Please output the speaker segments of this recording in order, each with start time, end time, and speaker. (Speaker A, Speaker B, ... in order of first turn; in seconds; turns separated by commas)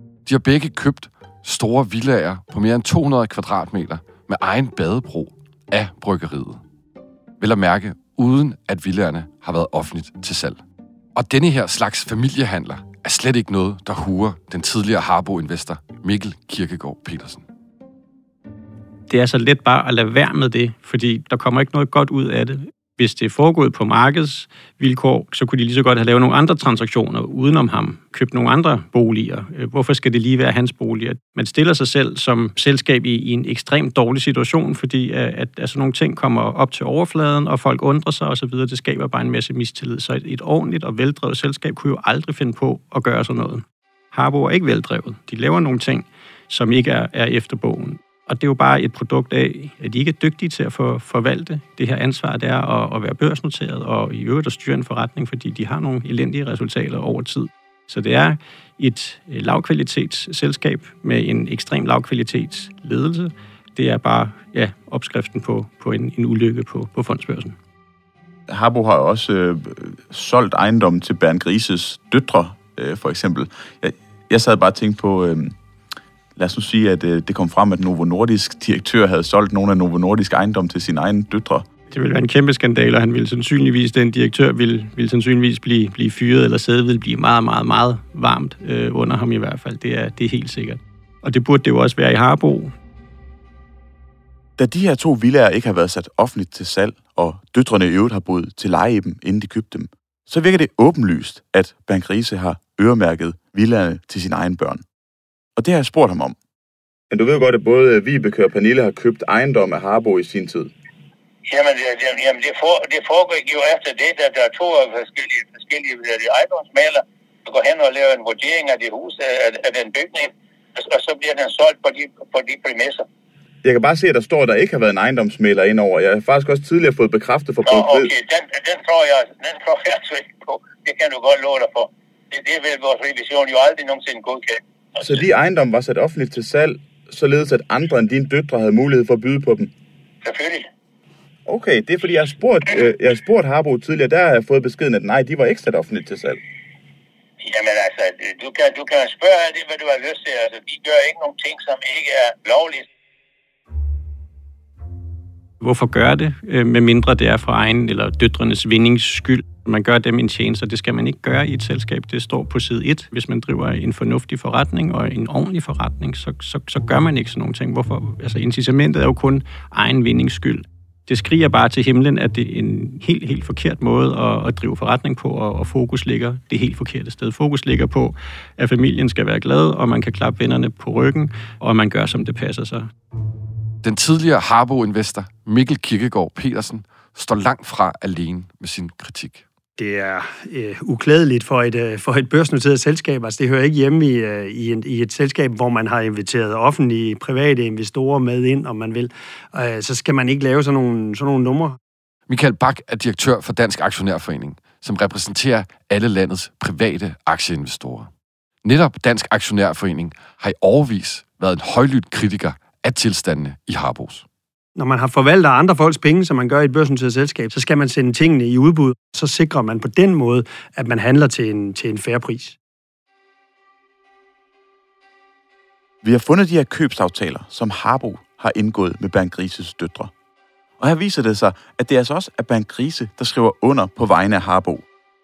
Speaker A: 0.2-6.6, Speaker A: 7.4-10.6, Speaker A: 11.1-17.4, Speaker B: 19.1-67.5, Speaker C: 68.5-75.5, Speaker C: 76.3-81.7, Speaker B: 81.9-92.7, Speaker C: 94.6-104.8, Speaker C: 105.6-106.3, Speaker C: 107.1-110.7, Speaker D: 111.5-123.0, Speaker C: 123.6-128.1, Speaker D: 127.7-135.0, Speaker C: 135.0-139.7, Speaker D: 140.2-140.7, Speaker C: 141.4-146.4, Speaker D: 147.4-152.9, Speaker B: 155.6-182.9, Speaker A: 183.8-189.4, Speaker E: 189.8-201.8, Speaker A: 202.3-208.1, Speaker A: 208.6-214.2, Speaker E: 214.8-222.6, Speaker C: 226.0-230.1, Speaker C: 230.8-234.8